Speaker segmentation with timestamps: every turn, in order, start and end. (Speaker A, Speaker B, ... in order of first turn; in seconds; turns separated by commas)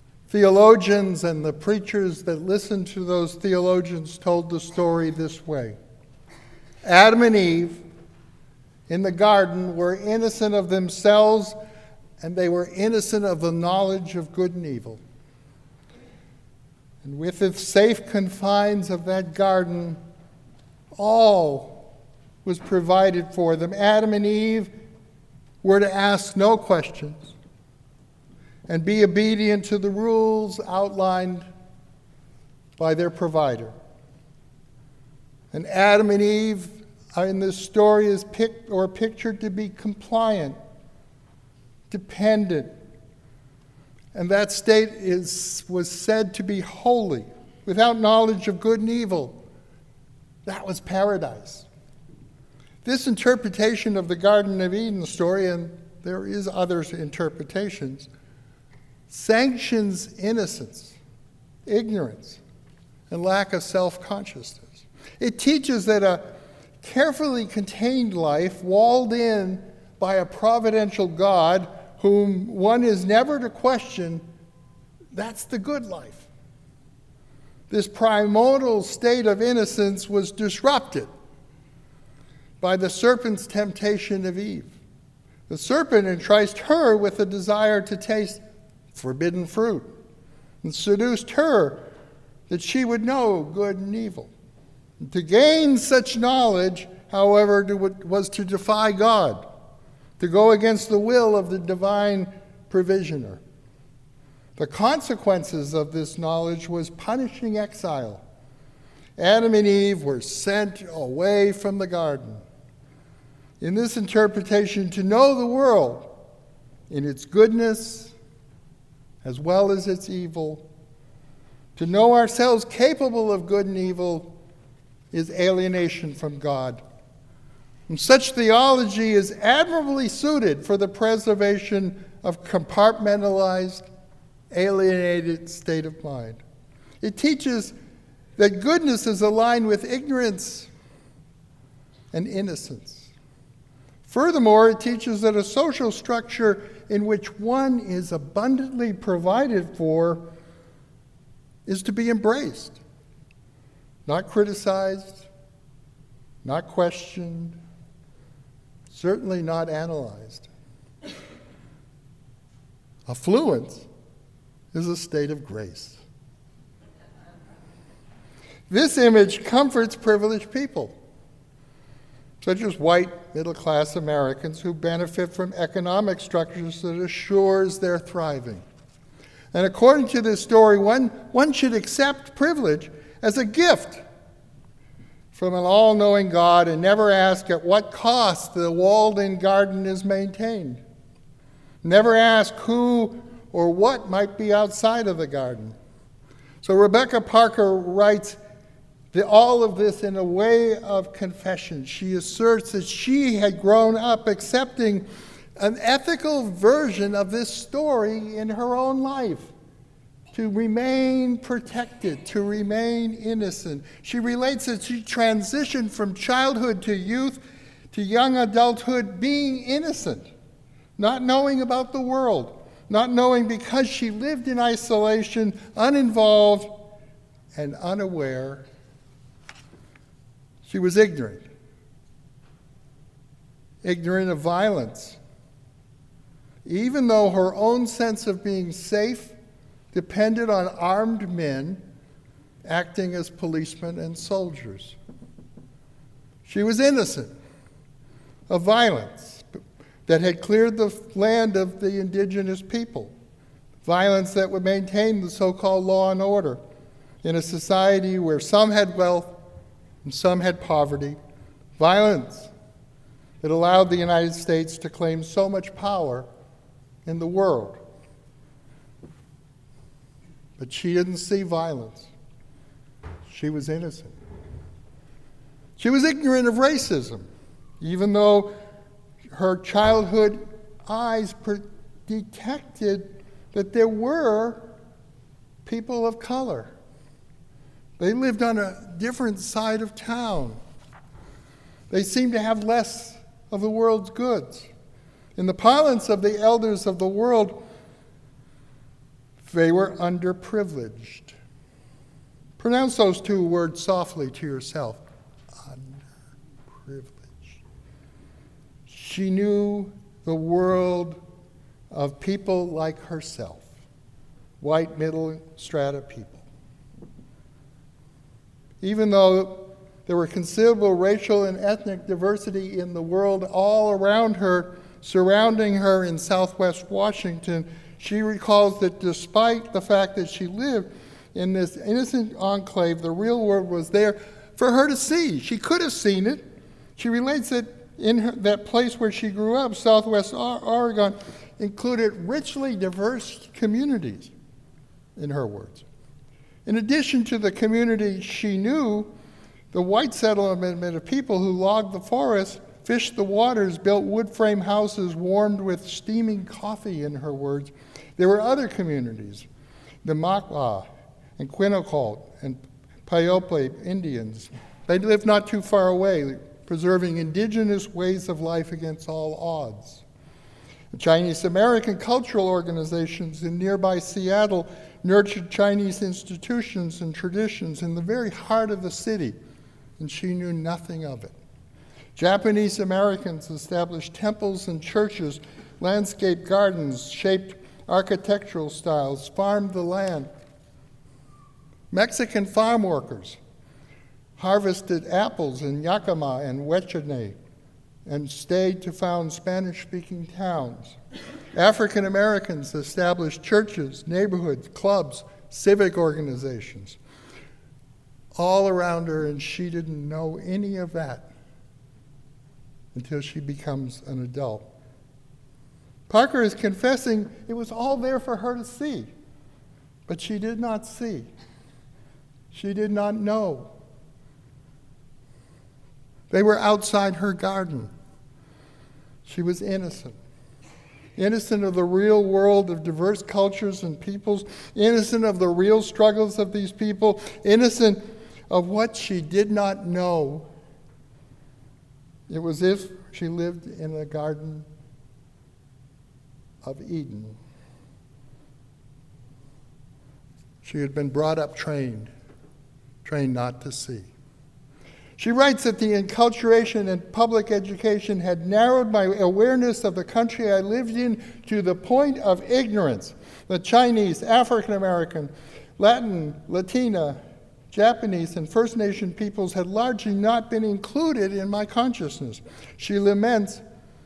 Speaker A: 0.3-5.8, Speaker A: 6.8-7.8, Speaker A: 8.9-11.6, Speaker A: 12.2-15.0, Speaker A: 17.0-20.0, Speaker A: 20.9-21.9, Speaker A: 22.4-24.7, Speaker A: 25.6-27.3, Speaker A: 28.7-31.5, Speaker A: 32.8-33.7, Speaker A: 35.5-40.5, Speaker A: 41.9-42.7, Speaker A: 44.1-49.4, Speaker A: 50.4-51.7, Speaker A: 52.8-58.1, Speaker A: 59.1-61.0, Speaker A: 61.6-62.4, Speaker A: 63.1-74.2, Speaker A: 75.1-76.3, Speaker A: 77.7-81.1, Speaker A: 82.6-84.8, Speaker A: 85.5-88.4, Speaker A: 88.9-89.9, Speaker A: 90.6-91.8, Speaker A: 92.5-94.3, Speaker A: 95.0-99.5, Speaker A: 100.2-103.4, Speaker A: 104.6-108.2, Speaker A: 109.2-112.4, Speaker A: 113.6-116.1, Speaker A: 116.9-118.1, Speaker A: 119.2-120.7, Speaker A: 121.8-124.3, Speaker A: 125.1-126.8, Speaker A: 127.9-133.8, Speaker A: 134.5-136.4, Speaker A: 137.0-137.7, Speaker A: 138.4-140.7, Speaker A: 142.1-143.1, Speaker A: 144.0-150.3, Speaker A: 151.7-152.8, Speaker A: 154.1-155.3, Speaker A: 156.4-157.6, Speaker A: 158.9-160.5, Speaker A: 163.1-163.9, Speaker A: 164.7-166.0, Speaker A: 168.7-170.9, Speaker A: 172.4-178.6, Speaker A: 179.5-184.0, Speaker A: 185.3-190.8, Speaker A: 191.8-195.7, Speaker A: 196.6-198.4, Speaker A: 199.1-205.1, Speaker A: 205.6-209.5, Speaker A: 210.3-217.4, Speaker A: 217.9-220.3, Speaker A: 221.0-226.9, Speaker A: 227.5-228.6, Speaker A: 230.6-231.5, Speaker A: 233.8-235.2, Speaker A: 236.6-239.3, Speaker A: 239.9-241.8, Speaker A: 242.6-245.0, Speaker A: 246.4-247.3, Speaker A: 248.5-253.1, Speaker A: 253.8-256.6, Speaker A: 257.2-259.4, Speaker A: 260.0-261.2, Speaker A: 261.8-262.5, Speaker A: 263.4-266.3, Speaker A: 267.0-267.8, Speaker A: 270.6-272.1, Speaker A: 273.3-274.1, Speaker A: 275.8-277.2, Speaker A: 277.8-278.5, Speaker A: 279.3-284.7, Speaker A: 285.6-286.7, Speaker A: 288.0-290.6, Speaker A: 291.9-294.7, Speaker A: 295.4-297.6, Speaker A: 299.4-301.4, Speaker A: 302.6-305.0, Speaker A: 305.6-306.0, Speaker A: 306.8-307.6, Speaker A: 308.9-311.2, Speaker A: 311.9-313.7, Speaker A: 314.6-316.4, Speaker A: 318.8-336.4, Speaker A: 337.0-344.3, Speaker A: 345.1-345.8, Speaker A: 346.6-349.1, Speaker A: 349.7-359.5, Speaker A: 360.0-370.0, Speaker A: 370.9-379.4, Speaker A: 380.0-381.3, Speaker A: 382.1-390.3, Speaker A: 391.9-393.4, Speaker A: 394.4-397.4, Speaker A: 398.1-401.0, Speaker A: 401.5-407.0, Speaker A: 408.4-411.3, Speaker A: 412.9-414.7, Speaker A: 416.1-419.1, Speaker A: 420.1-421.3, Speaker A: 422.5-423.7, Speaker A: 426.3-427.9, Speaker A: 429.2-430.2, Speaker A: 431.2-440.5, Speaker A: 442.3-444.7, Speaker A: 446.6-447.4, Speaker A: 450.6-452.1, Speaker A: 453.0-454.1, Speaker A: 455.2-467.2, Speaker A: 467.7-473.6